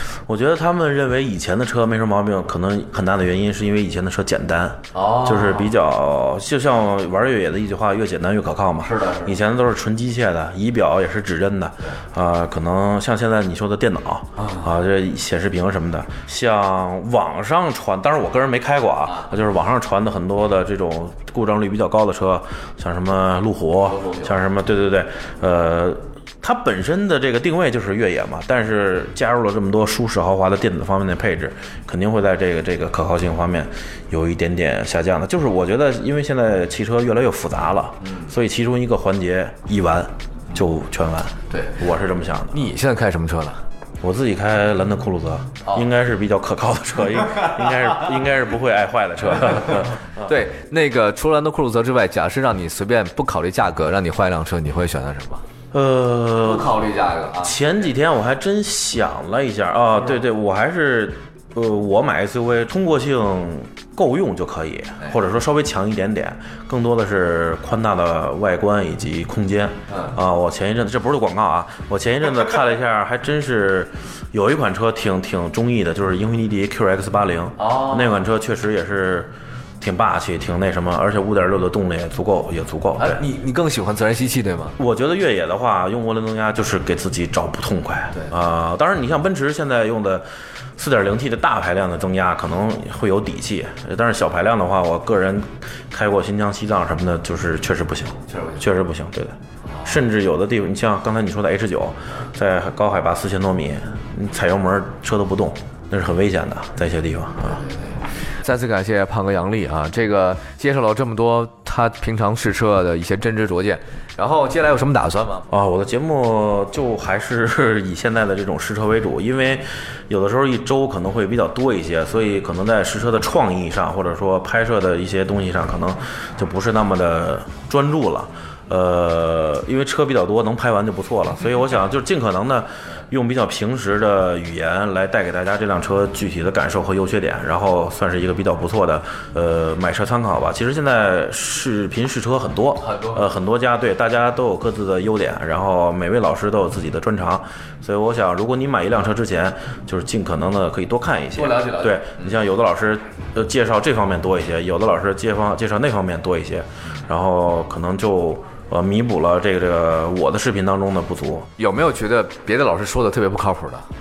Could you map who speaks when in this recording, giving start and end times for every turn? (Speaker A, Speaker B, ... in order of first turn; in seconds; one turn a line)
Speaker A: 0.3-42.6
Speaker B: 4.9-5.7
Speaker B: 8.8-9.4
Speaker B: 14.4-14.7
Speaker B: 23.9-24.3
Speaker B: 38.0-38.3
Speaker B: 41.5-41.8
Speaker B: 42.5-43.6
Speaker A: 44.0-50.3
Speaker B: 50.2-55.4
Speaker A: 55.7-56.8
Speaker B: 56.4-57.6
Speaker A: 57.4-83.2
Speaker B: 69.9-70.2
Speaker B: 77.6-78.2
Speaker B: 83.0-84.8
Speaker A: 84.8-90.2
Speaker A: 90.8-107.7
Speaker B: 98.3-98.6
Speaker B: 107.5-115.5
Speaker A: 115.5-161.5
Speaker B: 142.8-143.3
Speaker B: 151.3-152.4
Speaker B: 161.6-163.9